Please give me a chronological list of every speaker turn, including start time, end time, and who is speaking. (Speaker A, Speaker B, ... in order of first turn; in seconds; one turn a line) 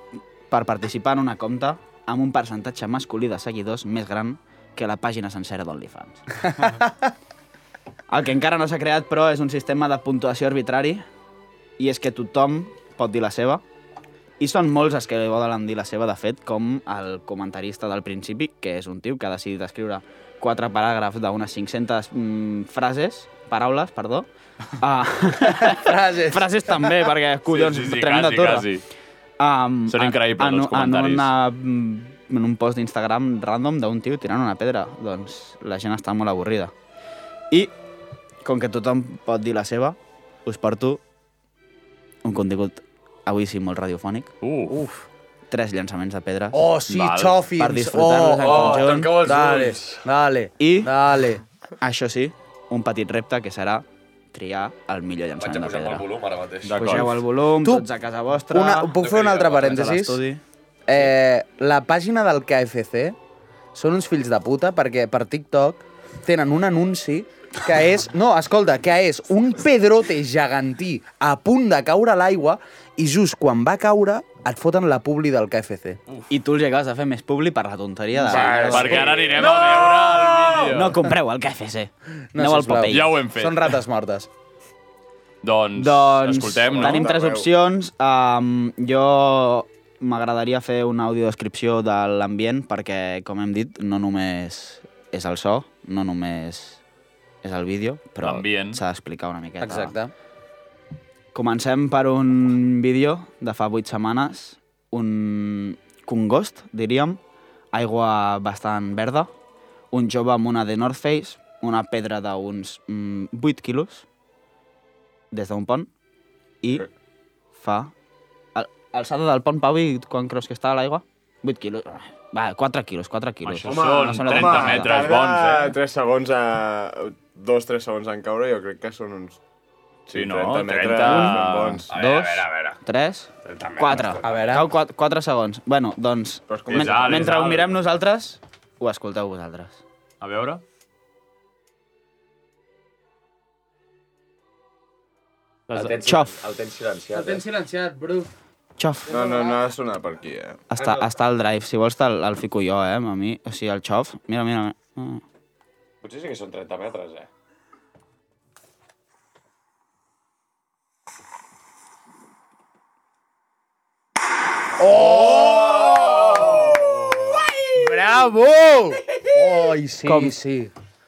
Speaker A: 0.5-6.4
Speaker B: 6.5-7.1
Speaker A: 8.1-11.0
Speaker A: 11.8-13.6
Speaker A: 14.4-24.3
Speaker A: 24.8-28.7
Speaker B: 25.4-27.1
Speaker C: 27.5-28.8
Speaker A: 29.4-36.7
Speaker C: 29.9-31.3
Speaker A: 38.4-41.0
Speaker A: 42.2-44.3
Speaker C: 44.4-44.8
Speaker B: 44.7-45.1
Speaker A: 45.5-46.7
Speaker B: 46.5-51.4
Speaker C: 46.9-47.4
Speaker A: 47.6-49.1
Speaker D: 48.4-50.0
Speaker A: 50.6-50.9
Speaker A: 51.8-56.0
Speaker D: 55.4-57.1
Speaker C: 56.6-57.1
Speaker A: 56.8-59.0
Speaker B: 57.6-57.9
Speaker B: 58.5-60.2
Speaker D: 59.0-59.7
Speaker A: 59.5-60.4
Speaker B: 60.9-63.1
Speaker B: 63.7-76.0
Speaker A: 76.3-79.5
Speaker B: 78.2-79.2
Speaker D: 78.3-79.0
Speaker C: 78.7-81.0
Speaker A: 80.7-83.2
Speaker B: 82.3-84.3
Speaker C: 82.9-83.7
Speaker C: 85.4-87.1
Speaker A: 85.8-96.8
Speaker E: 86.7-87.5
Speaker A: 97.4-99.9
Speaker C: 98.2-98.8
Speaker B: 99.6-100.1
Speaker A: 101.3-107.2
Speaker A: 107.7-109.3
Speaker A: 109.9-114.1
Speaker A: 115.3-115.9
Speaker A: 117.6-117.9
Speaker A: 118.5-125.1
Speaker C: 123.4-125.8
Speaker E: 123.6-129.4
Speaker E: 130.1-131.9
Speaker C: 130.1-131.8
Speaker A: 131.0-139.8
Speaker D: 131.9-132.8
Speaker D: 133.4-134.5
Speaker B: 134.2-134.7
Speaker E: 136.5-137.5
Speaker C: 136.7-137.7
Speaker C: 140.2-140.6
Speaker C: 145.7-145.9
Speaker D: 145.7-147.4
Speaker A: 146.0-146.3
Speaker B: 147.1-148.3
Speaker A: 148.8-149.2
Speaker E: 149.1-150.6
Speaker B: 149.1-149.5
Speaker A: 150.7-155.2
Speaker D: 150.8-151.0
Speaker D: 156.0-157.3
Speaker B: 164.8-166.7
Speaker D: 165.1-167.1
Speaker B: 167.7-170.7
Speaker A: 170.0-170.3